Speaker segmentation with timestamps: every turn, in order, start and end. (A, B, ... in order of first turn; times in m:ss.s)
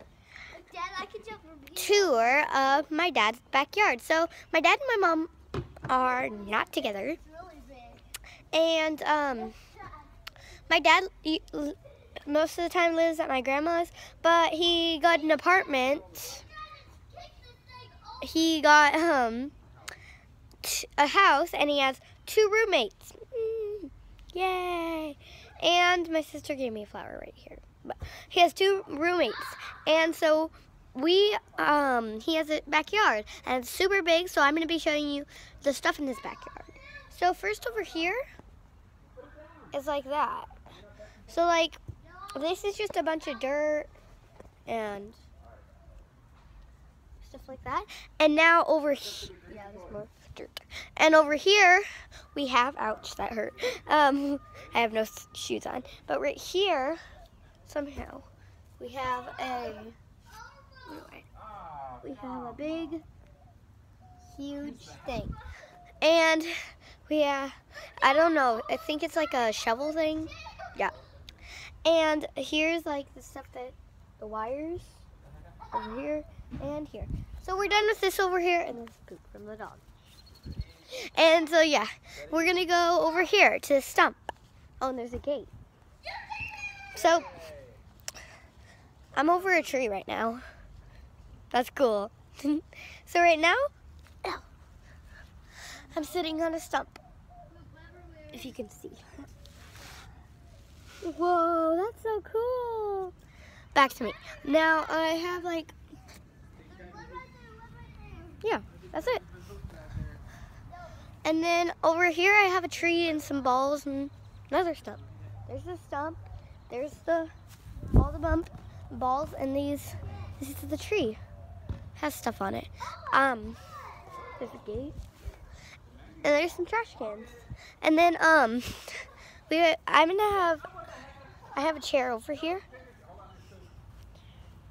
0:00.5-0:02.5 A
0:01.8-0:05.3 B
0:05.9-0:07.2 B
0:07.2-0:08.0 A
0:08.5-0:09.6 B
0:10.7-0:16.4 B
0:16.4-0:18.2 A
0:18.2-0:19.5 B
0:20.6-0:38.2 B
0:39.7-0:40.5 B
0:41.3-0:41.8 B
0:42.3-0:43.9 B
0:44.7-0:45.2 B
0:47.2-0:57.0 B
0:57.6-0:58.3 B
0:58.8-1:00.0 B
1:00.9-1:01.2 B
1:02.0-1:03.0 B
1:04.2-1:05.4 B
1:06.0-1:06.5 B
1:07.1-1:10.9 B
1:11.8-1:15.0 B
1:15.7-1:19.8 B
1:20.9-1:25.5 B
1:26.9-1:27.4 B
1:29.1-1:30.4 B
1:31.5-1:33.7 B
1:35.9-1:37.0 B
1:37.5-1:38.4 A
1:38.3-1:39.3 B
1:41.0-1:43.1 B
1:43.7-1:45.7 B
1:46.6-1:48.4 A
1:48.4-1:49.2 B
1:51.2-1:57.3 B
1:57.9-2:01.2 B
2:02.0-2:03.6 B
2:04.4-2:05.0 B
2:06.2-2:10.7 B
2:11.5-2:12.6 B